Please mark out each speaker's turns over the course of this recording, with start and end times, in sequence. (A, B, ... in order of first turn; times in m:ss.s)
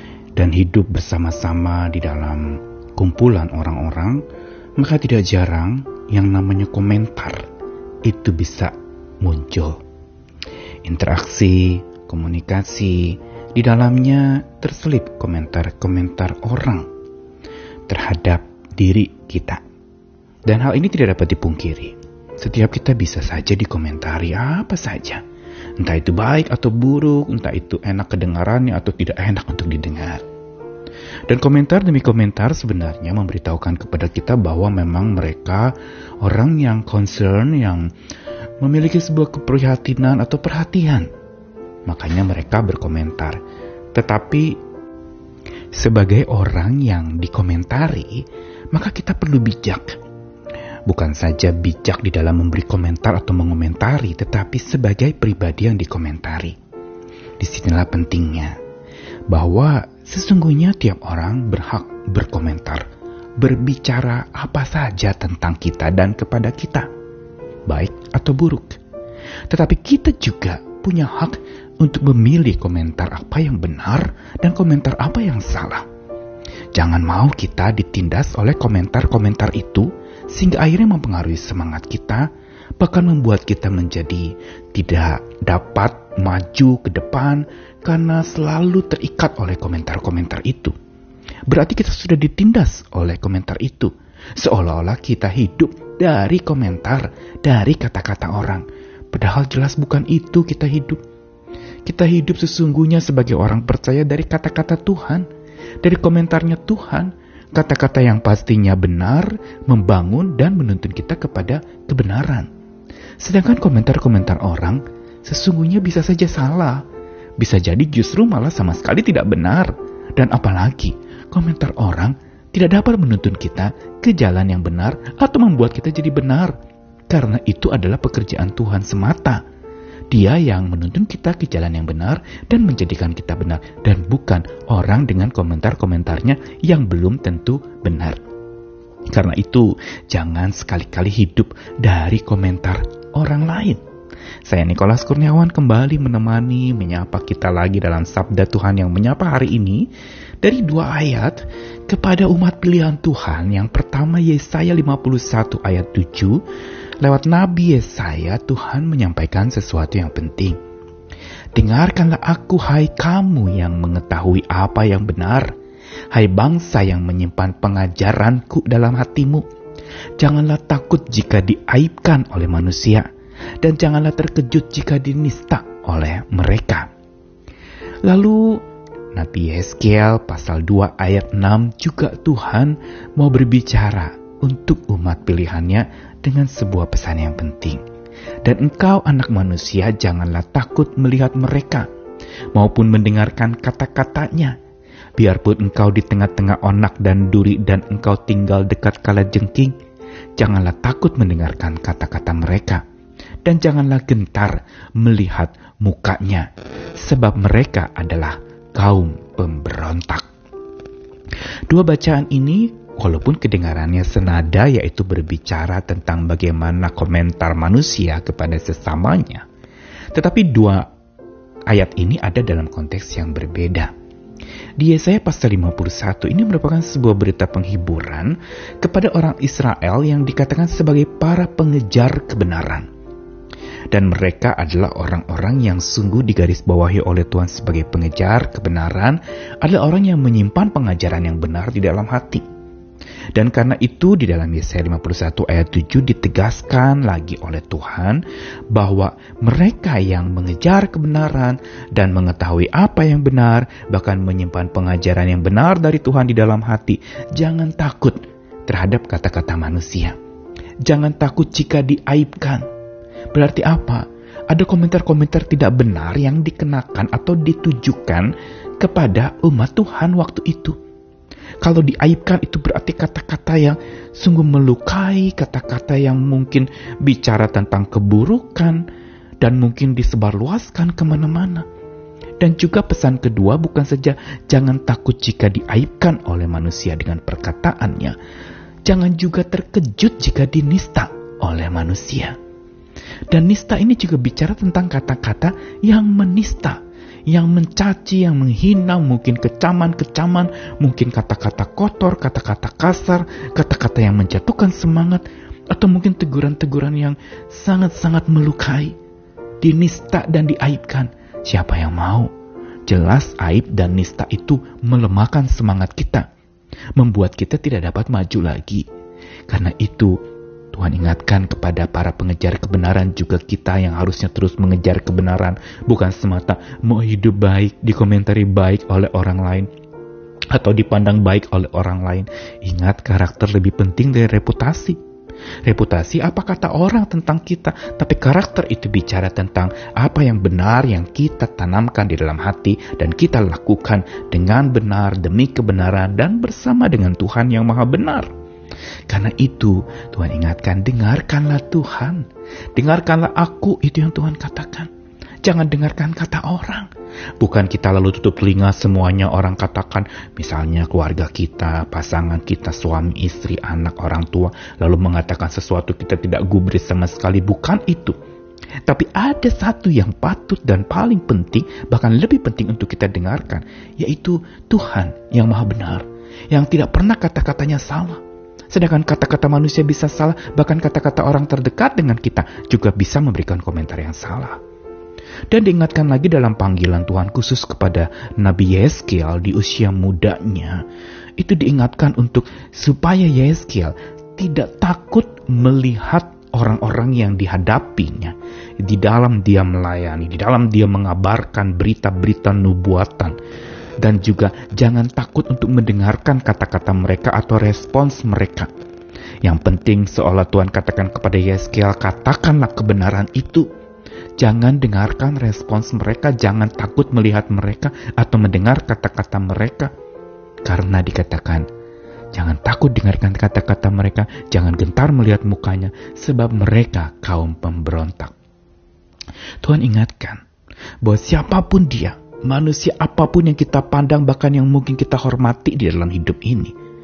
0:00.3-0:04.2 A
0:04.8-0:07.5 A
0:08.0-0:09.8 A
0:10.8-0:16.9 A
0:17.9-0:19.6 A
0:20.5-0:25.2 A
0:25.8-0:30.2 A
0:31.3-0:37.9 A
0:38.6-0:41.1 A
0:41.9-0:43.4 A
0:43.9-0:44.6 A
0:45.7-0:50.0 A
0:50.8-0:56.6 A
0:57.4-0:58.6 A
0:59.3-1:02.8 A
1:03.4-1:06.9 A
1:07.7-1:08.8 A
1:09.5-1:15.8 A
1:16.7-1:30.7 A
1:31.5-1:41.0 A
1:41.8-1:45.3 A
1:45.8-1:52.5 A
1:53.2-1:56.8 A
1:57.4-2:06.5 A
2:07.1-2:09.4 A
2:10.1-2:18.2 A
2:19.1-2:23.8 A
2:24.4-2:29.9 A
2:30.4-2:36.4 A
2:37.0-2:40.6 A
2:41.5-2:45.5 A
2:46.1-2:49.4 A
2:50.2-2:53.1 A
2:53.6-2:56.9 A
2:58.0-2:58.6 A
2:59.1-3:07.8 A
3:08.4-3:11.9 A
3:12.5-3:14.5 A
3:15.2-3:19.8 A
3:20.4-3:22.8 A
3:23.4-3:26.5 A
3:27.0-3:30.2 A
3:31.7-3:39.4 A
3:40.1-3:40.9 A
3:41.7-3:43.9 A
3:44.8-3:52.9 A
3:53.9-4:02.4 A
4:03.3-4:20.1 A
4:20.8-4:22.6 A
4:23.3-4:28.3 A
4:28.8-4:30.8 A
4:31.6-4:38.8 A
4:39.4-4:41.6 A
4:42.4-4:48.2 A
4:48.8-4:52.4 A
4:53.3-4:56.8 A
4:57.3-5:08.9 A
5:09.6-5:12.3 A
5:12.9-5:16.2 A
5:17.0-5:18.8 A
5:19.5-5:20.1 A
5:20.7-5:29.7 A
5:30.5-5:35.0 A
5:35.6-5:48.3 A
5:49.1-5:54.9 A
5:55.4-5:56.9 A
5:57.4-6:08.2 A
6:08.9-6:24.6 A
6:25.5-6:30.8 A
6:31.4-6:43.3 A
6:44.0-6:48.7 A
6:49.4-6:53.6 A
6:54.4-6:59.9 A
7:00.6-7:01.6 A
7:02.3-7:08.3 A
7:09.6-7:10.4 A
7:11.0-7:16.7 A